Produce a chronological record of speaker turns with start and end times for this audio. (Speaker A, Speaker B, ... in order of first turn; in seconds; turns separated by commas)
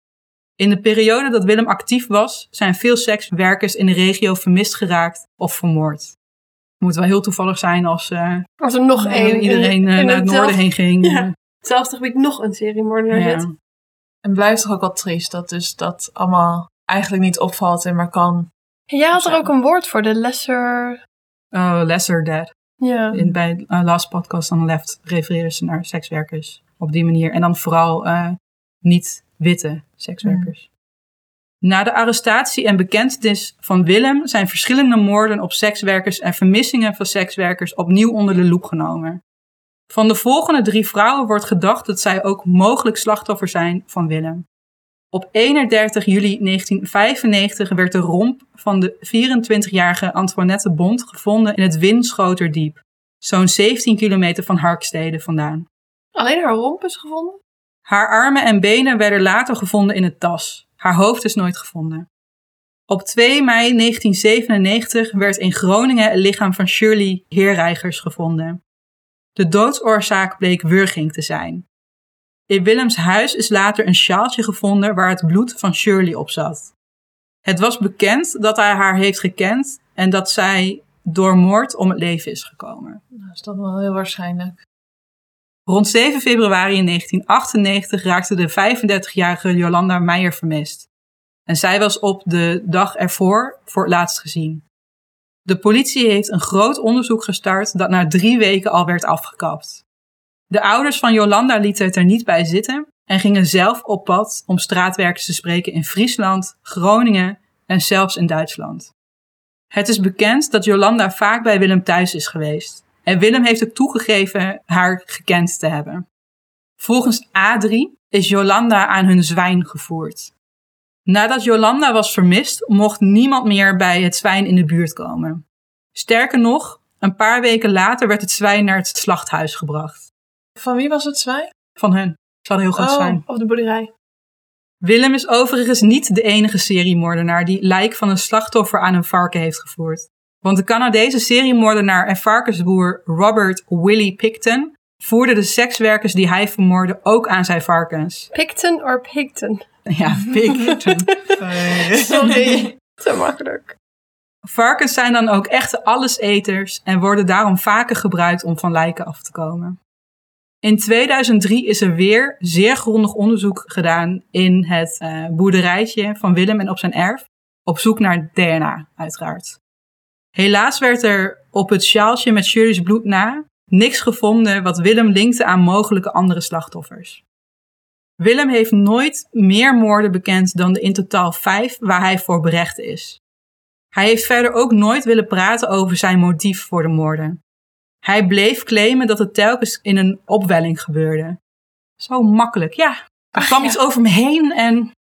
Speaker A: 0.6-6.1, Speaker A: 6.8-11.3, Speaker B: 8.6-13.4, Speaker A: 13.1-13.5, Speaker C: 14.2-18.5, Speaker B: 18.9-21.0, Speaker C: 19.1-19.4, Speaker A: 21.5-22.5, Speaker B: 22.8-23.1, Speaker A: 23.1-30.7, Speaker C: 30.2-30.5, Speaker A: 31.6-39.2, Speaker A: 39.9-44.4, Speaker A: 45.1-55.6, Speaker B: 56.1-57.4, Speaker A: 57.9-62.1, Speaker A: 62.9-68.6, Speaker A: 69.3-71.6, Speaker A: 72.5-76.7, Speaker A: 77.4-83.0, Speaker C: 83.1-84.6, Speaker A: 85.7-90.9, Speaker A: 91.5-94.6, Speaker A: 95.5-99.8, Speaker A: 100.5-108.9, Speaker A: 109.7-116.0, Speaker A: 116.8-120.3, Speaker A: 121.0-125.4, Speaker A: 125.9-130.1, Speaker C: 130.6-131.5, Speaker A: 131.8-133.2, Speaker C: 132.7-133.2, Speaker B: 133.2-133.9, Speaker A: 134.8-148.3, Speaker B: 148.3-149.7, Speaker A: 149.9-151.1, Speaker B: 150.5-153.7, Speaker C: 151.4-152.7, Speaker A: 154.4-159.8, Speaker A: 160.6-169.6, Speaker A: 170.3-177.2, Speaker A: 178.2-183.2, Speaker A: 183.9-187.4, Speaker A: 188.0-191.4, Speaker A: 192.0-194.9, Speaker B: 193.3-193.8